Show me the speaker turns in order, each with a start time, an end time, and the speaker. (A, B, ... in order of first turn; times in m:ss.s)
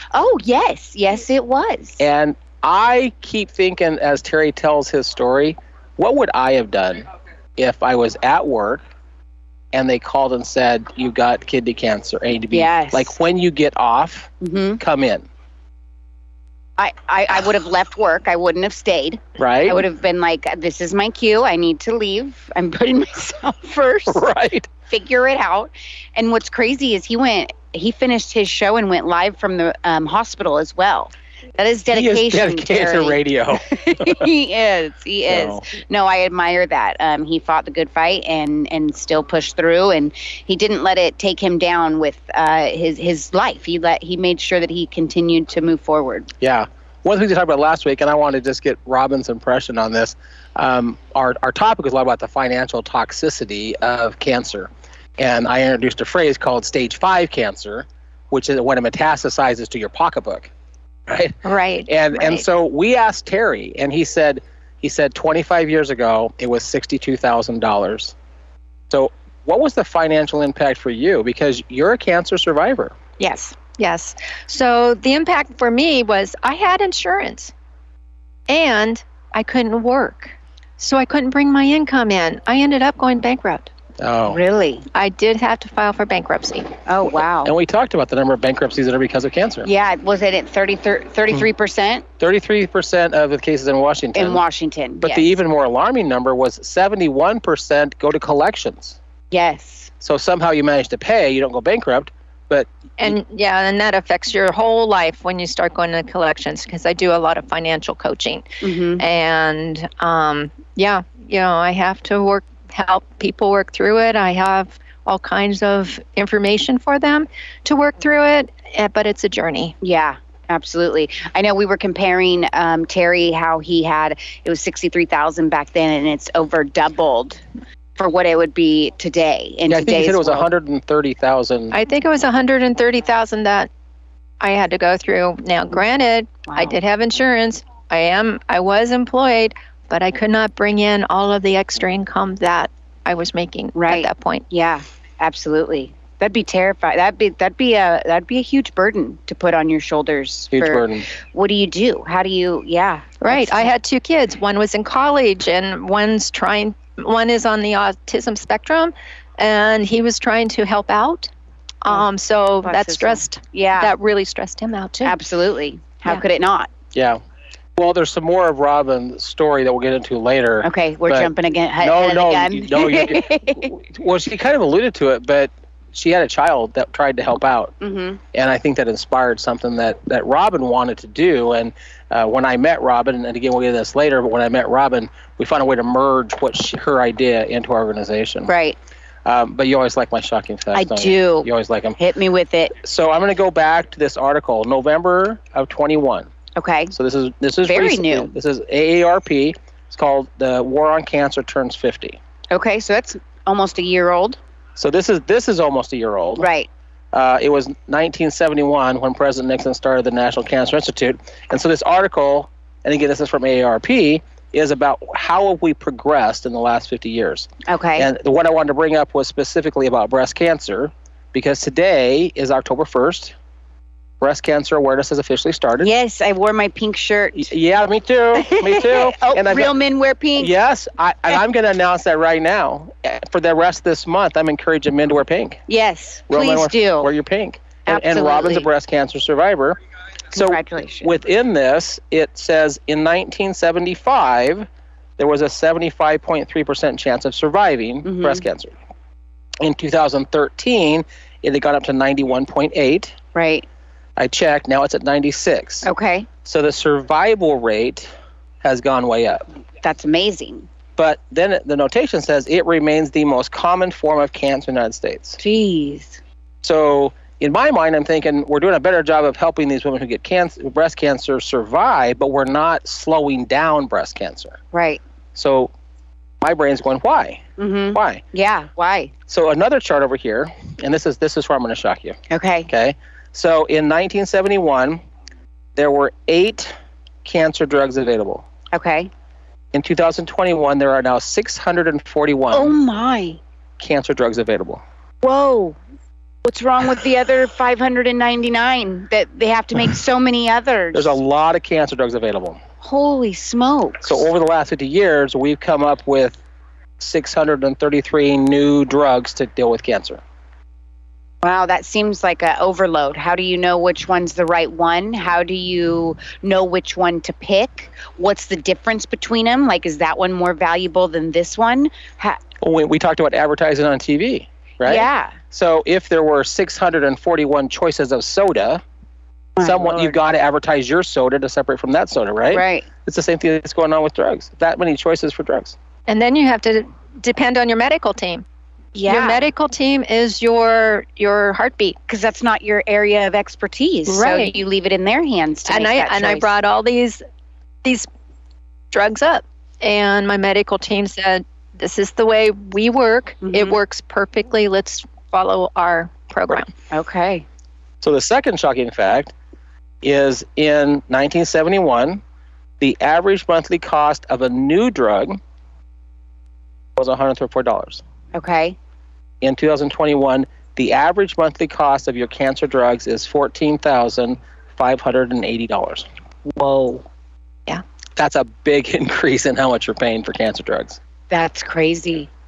0:00.1-0:02.0 A
0:02.0-0:07.0 B
0:07.6-0:08.8 B
0:09.7-0:15.3 B
0:12.5-0:13.1 A
0:14.4-0:14.8 A
0:16.8-0:24.3 A
0:19.4-0:19.8 B
0:24.1-0:24.7 B
0:24.9-0:46.3 A
0:31.9-0:34.3 B
0:35.3-0:35.7 B
0:46.4-1:00.5 B
1:01.1-1:08.1 B
1:01.4-1:02.4 C
1:08.9-1:13.0 B
1:13.2-1:17.5 C
1:18.5-1:23.7 C
1:24.0-1:24.4 B
1:24.3-1:24.9 A
1:24.9-1:26.7 C
1:26.9-1:27.5 A
1:27.4-1:29.7 B
1:29.6-1:32.0 A
1:32.2-1:34.4 B
1:34.2-1:35.4 A
1:35.0-1:39.0 B
1:39.3-1:39.9 A
1:40.0-1:43.2 B
1:43.0-1:59.8 C
1:48.6-1:49.0 A
1:59.8-2:07.4 A
2:08.0-2:10.5 A
2:09.7-2:11.8 B
2:11.7-2:13.7 C
2:14.4-2:24.5 C
2:16.5-2:16.8 A
2:23.8-2:33.7 A
2:30.5-2:31.1 B
2:33.2-2:41.3 C
2:41.8-2:45.2 C
2:42.6-2:43.9 A
2:45.0-2:46.7 A
2:46.9-2:47.2 B
2:47.8-2:57.7 B
2:50.6-2:53.7 A
2:57.8-2:58.2 A
2:58.3-3:08.5 B
3:08.5-3:08.8 A
3:09.2-3:12.0 B
3:10.7-3:12.8 A
3:12.8-3:16.3 B
3:16.6-3:16.9 A
3:16.9-3:22.2 B
3:17.6-3:18.3 A
3:22.5-3:24.4 A
3:24.8-3:26.5 B
3:26.4-3:26.7 A
3:27.1-3:43.4 B
3:37.7-3:38.1 A
3:44.2-3:45.9 B
3:45.8-3:47.5 A
3:47.4-3:49.7 B
3:48.4-3:50.5 A
3:50.4-3:55.6 B
3:55.7-3:57.1 A
3:56.3-3:59.8 B
3:57.9-3:58.7 A
4:00.3-4:04.7 B
4:00.3-4:01.1 A
4:05.2-4:08.7 B
4:08.0-4:08.4 A
4:09.6-4:13.2 B
4:13.3-4:13.7 A
4:14.2-4:15.9 B
4:15.8-4:16.3 A
4:16.4-4:18.1 B
4:18.6-4:19.4 B
4:19.8-4:20.7 A
4:21.0-4:25.4 B
4:25.4-4:26.2 A
4:26.6-4:34.6 B
4:34.7-4:35.0 A
4:35.4-4:35.7 B
4:36.4-4:38.2 B
4:37.6-4:39.1 A
4:39.3-4:45.0 B
4:42.3-4:42.7 A
4:45.8-4:46.7 B
4:47.2-4:48.5 B
4:48.7-4:49.1 A
4:49.7-4:52.7 B
4:52.5-4:53.4 A
4:53.8-4:54.8 B
4:55.2-4:55.8 A
4:56.4-5:01.2 A
5:00.9-5:02.6 B
5:02.8-5:04.2 A
5:04.0-5:06.4 B
5:07.0-5:10.2 B
5:11.4-5:22.4 A
5:22.6-5:28.8 B
5:24.8-5:25.4 A
5:29.6-5:30.2 A
5:29.6-5:35.8 B
5:32.5-5:32.9 A
5:36.1-5:38.4 C
5:39.0-5:39.4 A
5:39.1-5:42.0 C
5:42.1-5:46.5 A
5:44.1-5:44.6 C
5:45.7-5:47.2 C
5:48.9-5:56.7 C
5:53.4-5:53.8 A
5:56.9-5:57.4 A
5:58.0-5:59.3 B
6:00.0-6:02.2 B
6:02.8-6:05.4 B
6:07.0-6:08.0 B
6:08.3-6:08.8 A
6:09.4-6:16.1 B
6:16.5-6:17.0 A
6:18.2-6:21.0 B
6:21.3-6:22.3 A